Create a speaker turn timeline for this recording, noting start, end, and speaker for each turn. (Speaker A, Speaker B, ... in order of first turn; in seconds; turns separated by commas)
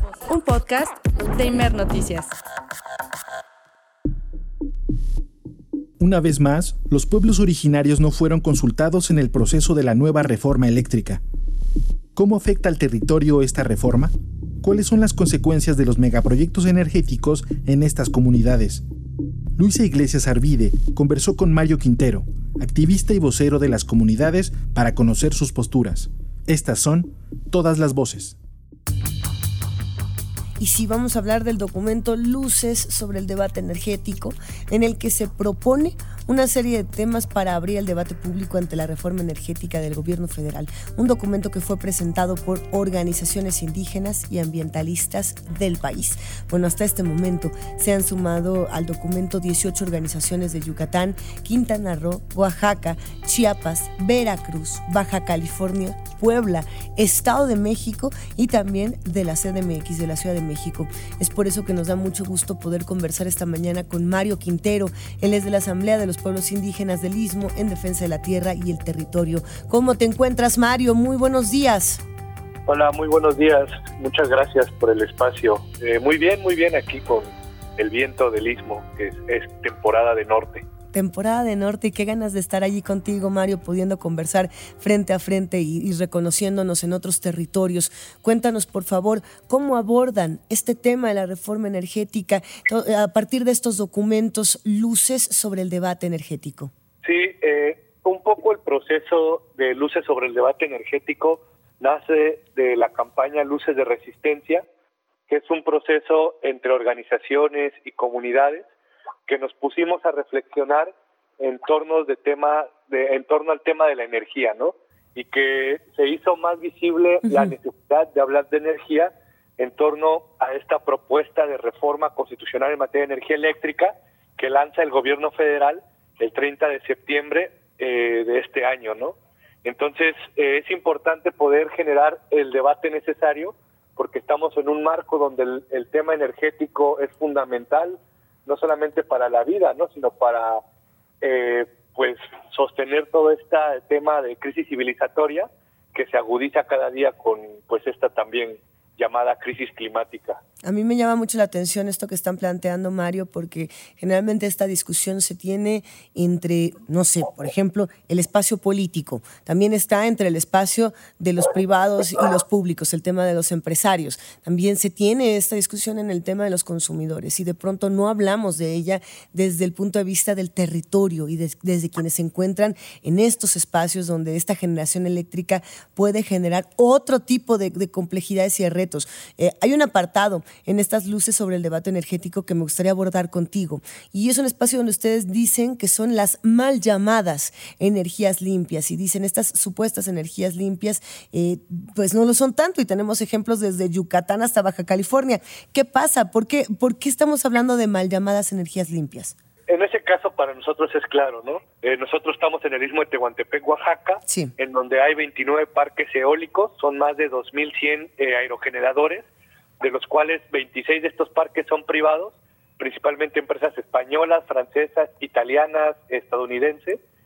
Speaker A: 0.3-2.3, Speaker B: 6.0-11.2, Speaker B: 12.2-18.8, Speaker B: 19.6-28.4, Speaker C: 30.6-72.0, Speaker D: 72.7-80.6, Speaker C: 80.9-96.7, Speaker D: 97.0-104.6, Speaker D: 105.3-108.7, Speaker D: 109.2-140.6, Speaker C: 117.2-117.5, Speaker D: 141.2-150.4, Speaker C: 150.6-199.3, Speaker D: 199.7-209.3, Speaker D: 209.8-217.0